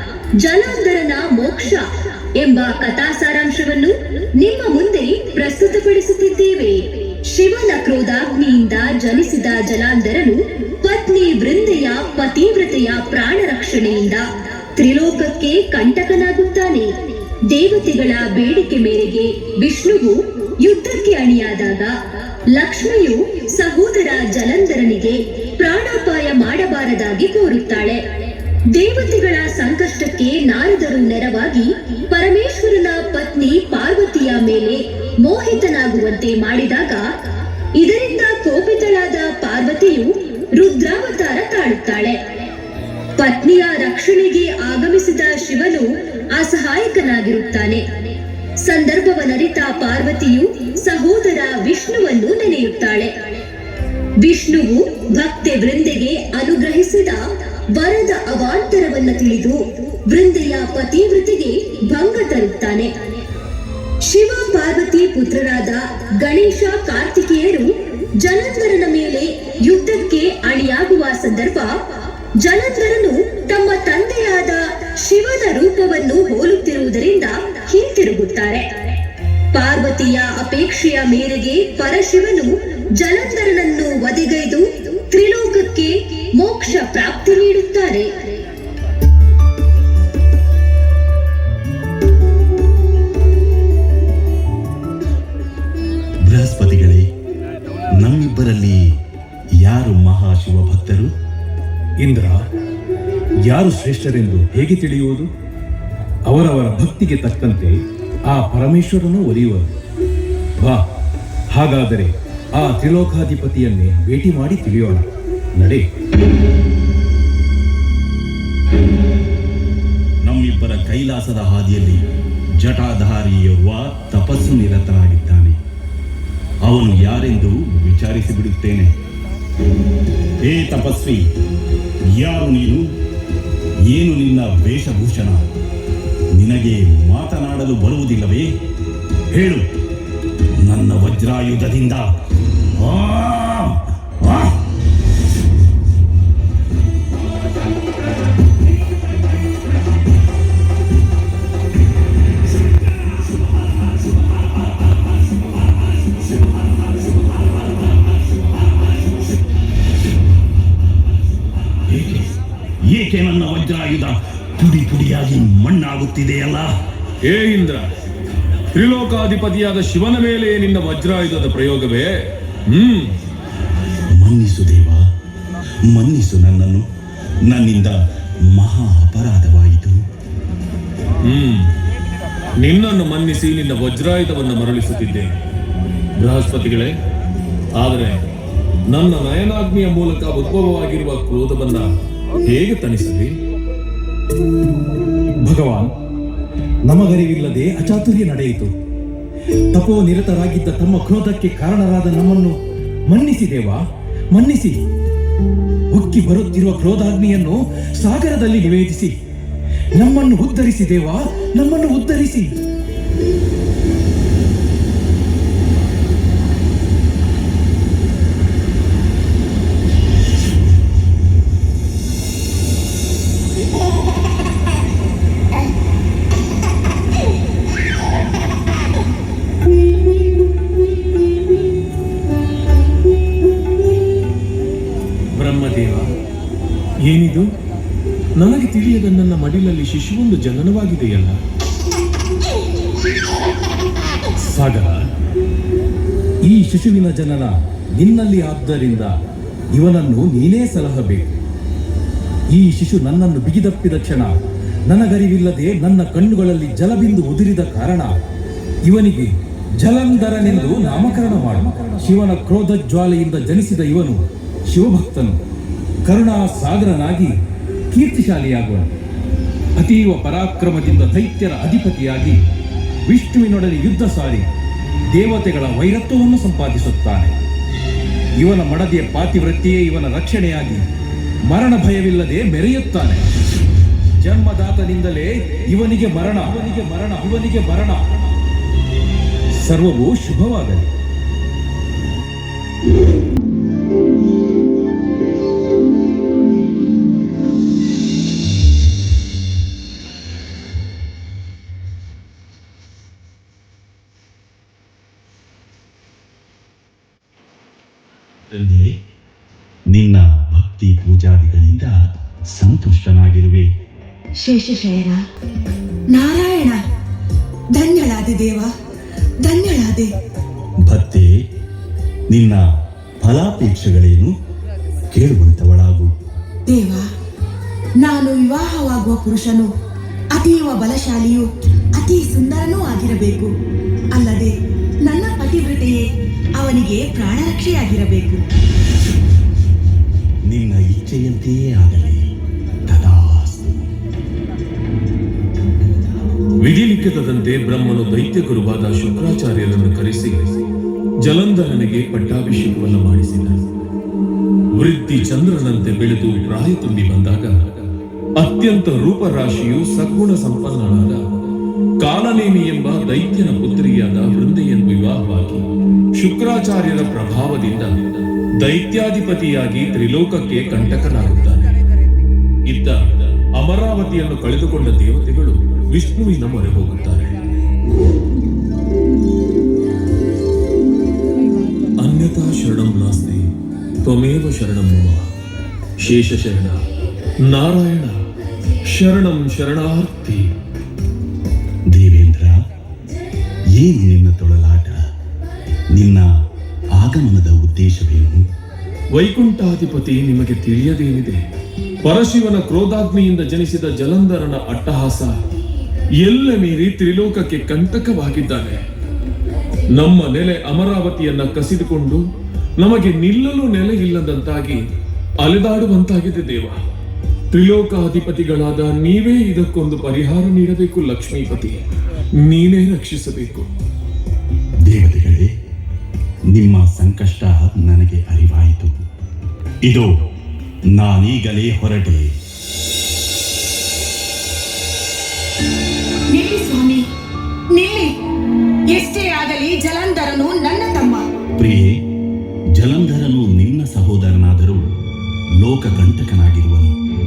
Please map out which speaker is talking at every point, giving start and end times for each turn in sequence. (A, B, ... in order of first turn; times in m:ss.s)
0:00.4-0:16.9 A
0:17.5-0:28.0 A
0:28.7-0:37.1 A
0:37.8-0:42.2 A
0:43.2-0:53.4 A
0:54.2-0:57.2 A
0:57.7-1:03.1 A
1:04.0-1:07.7 A
1:08.2-1:11.8 A
1:12.4-1:18.8 A
1:19.5-1:28.1 A
1:36.2-1:37.0 B
1:38.0-1:38.8 B
1:39.6-1:41.1 B
1:42.0-1:42.4 C
1:43.5-1:45.3 C
1:46.3-1:47.7 C
1:48.3-1:49.7 C
1:51.5-1:55.0 C
1:55.6-1:55.8 C
2:00.2-2:02.0 B
2:02.6-2:05.6 B
2:06.6-2:08.9 B
2:10.4-2:11.2 B
2:12.2-2:12.8 B
2:13.9-2:15.4 B
2:16.4-2:18.5 B
2:19.3-2:19.6 B
2:20.6-2:22.0 B
2:22.8-2:24.5 B
2:41.9-2:46.7 B
2:47.2-2:47.9 D
2:48.7-2:53.1 D
2:54.1-2:55.0 B
2:55.9-2:56.8 B
2:57.5-2:58.0 B
2:58.5-3:00.0 B
3:01.2-3:01.7 D
3:02.6-3:05.4 D
3:06.2-3:06.9 D
3:07.8-3:08.2 D
3:08.9-3:11.9 D
3:12.4-3:13.3 D
3:15.4-3:15.9 C
3:16.9-3:18.7 C
3:19.7-3:22.6 C
3:23.1-3:23.8 C
3:24.3-3:24.8 C
3:25.9-3:29.1 C
3:30.0-3:32.5 C
3:55.3-3:56.1 D
3:57.0-3:57.5 D
3:58.4-4:01.4 D
4:04.4-4:05.0 C
4:06.4-4:09.1 C
4:09.7-4:11.3 C
4:12.5-4:14.3 C
4:14.9-4:18.1 C
4:18.8-4:19.3 C
4:19.8-4:25.4 C
4:20.2-4:22.0 D
4:26.0-4:27.4 C
4:27.9-4:28.9 C
4:29.8-4:32.4 C
4:33.1-4:34.4 C
4:35.1-4:37.3 C
4:38.4-4:40.8 C
4:41.5-4:43.2 C
4:44.2-4:48.0 C
4:49.6-4:50.9 C
5:08.5-5:09.0 B
5:09.9-5:13.7 B
5:14.4-5:15.2 E
5:16.1-5:16.8 E
5:17.7-5:18.7 E
5:19.4-5:20.1 E
5:20.8-5:21.3 B
5:22.3-5:22.6 B
5:23.2-5:24.3 B
5:25.1-5:26.1 B
5:26.7-5:27.0 E
5:28.0-5:29.7 E
5:30.3-5:33.5 E
5:34.1-5:34.5 E
5:35.0-5:36.0 E
5:36.6-5:38.4 E
5:40.5-5:42.3 B
5:42.9-5:43.9 B
5:46.6-5:50.6 D
5:51.2-5:53.6 D
5:54.8-5:57.8 D
5:58.4-6:01.3 D
6:02.0-6:05.6 D
6:06.2-6:11.8 D
6:12.7-6:17.3 D
6:22.0-6:23.5 D
6:24.0-6:25.2 D
6:26.0-6:26.8 D
6:27.4-6:28.2 D
6:28.8-6:30.5 D
6:31.9-6:32.6 B
6:33.7-6:35.0 B
6:35.9-6:36.3 B
6:36.9-6:38.4 B
6:39.1-6:41.4 D
6:42.0-6:45.4 D
6:46.2-6:48.8 D
6:49.9-6:52.2 D
6:52.8-6:54.8 D
6:55.4-6:56.8 D
6:57.5-7:01.8 D
7:02.4-7:03.7 D
7:04.8-7:05.5 B
7:06.5-7:09.0 B
7:10.9-7:12.3 B
7:16.3-7:17.1 E
7:17.7-7:18.2 E
7:18.9-7:21.2 E
7:21.6-7:22.0 B
7:22.7-7:24.8 B
7:25.6-7:26.9 B